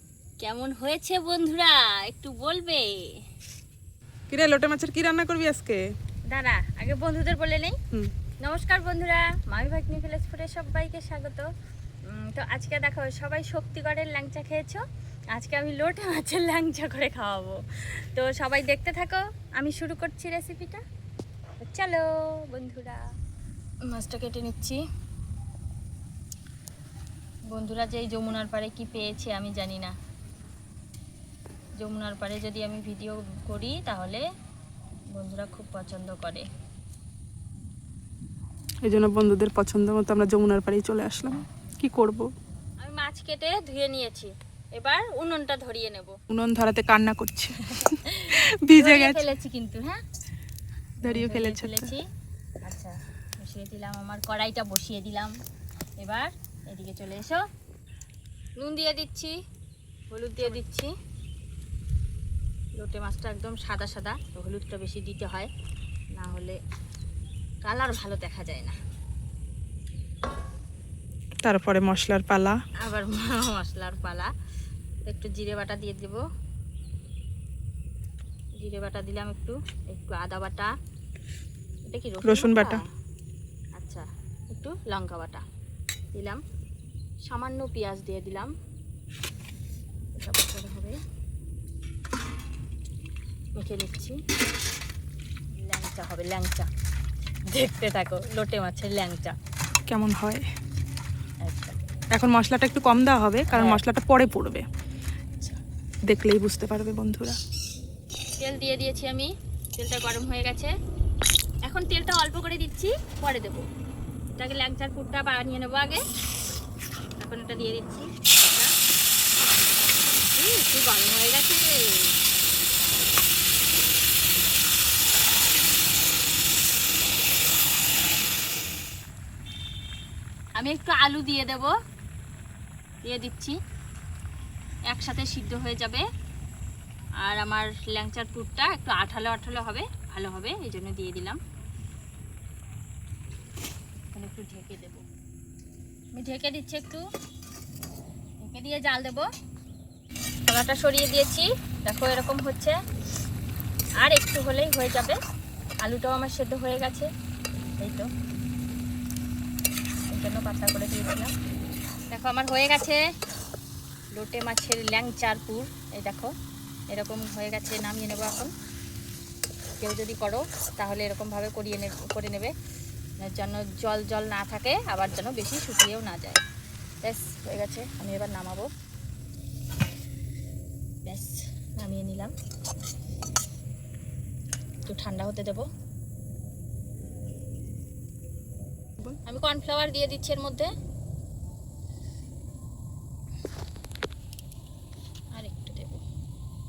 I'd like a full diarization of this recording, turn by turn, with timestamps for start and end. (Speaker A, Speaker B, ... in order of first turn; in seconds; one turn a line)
Speaker A: 0.4-3.2
Speaker B: 4.3-5.8
Speaker A: 6.3-7.8
Speaker A: 8.4-11.5
Speaker A: 12.1-20.8
Speaker A: 21.6-23.1
Speaker A: 23.9-24.8
Speaker A: 27.5-29.9
Speaker A: 31.8-34.2
Speaker A: 35.1-36.5
Speaker B: 38.9-42.3
Speaker A: 42.8-46.1
Speaker B: 46.3-49.3
Speaker A: 47.6-50.0
Speaker A: 51.0-52.0
Speaker B: 51.0-52.0
Speaker A: 52.6-55.4
Speaker A: 56.0-57.4
Speaker A: 58.6-59.4
Speaker A: 60.1-60.9
Speaker A: 62.8-65.5
Speaker A: 66.2-66.6
Speaker A: 67.6-68.8
Speaker B: 71.4-72.6
Speaker A: 72.8-74.3
Speaker A: 75.0-76.2
Speaker A: 78.6-80.7
Speaker A: 81.8-82.8
Speaker B: 82.2-82.8
Speaker A: 83.8-85.4
Speaker A: 86.1-86.4
Speaker A: 87.3-88.5
Speaker A: 90.2-91.0
Speaker A: 93.5-94.2
Speaker A: 95.5-96.7
Speaker A: 97.5-99.4
Speaker B: 99.9-100.5
Speaker A: 101.4-101.8
Speaker B: 102.1-104.7
Speaker A: 103.5-103.8
Speaker B: 106.1-107.4
Speaker A: 108.4-110.7
Speaker A: 111.7-113.7
Speaker A: 114.3-116.0
Speaker A: 117.2-118.7
Speaker A: 120.1-122.2
Speaker A: 130.6-131.8
Speaker A: 133.0-133.6
Speaker A: 134.9-136.1
Speaker A: 137.2-141.4
Speaker A: 144.1-145.1
Speaker A: 146.1-147.1
Speaker A: 148.4-149.3
Speaker A: 150.5-152.8
Speaker A: 154.0-155.2
Speaker A: 155.8-157.1
Speaker A: 157.8-158.1
Speaker A: 160.1-161.3
Speaker A: 162.1-163.0
Speaker A: 164.1-166.3
Speaker A: 166.9-168.5
Speaker A: 169.8-172.6
Speaker A: 173.2-176.4
Speaker A: 177.0-178.7
Speaker A: 181.1-182.3
Speaker A: 184.9-185.7
Speaker A: 189.3-190.7
Speaker A: 195.3-196.0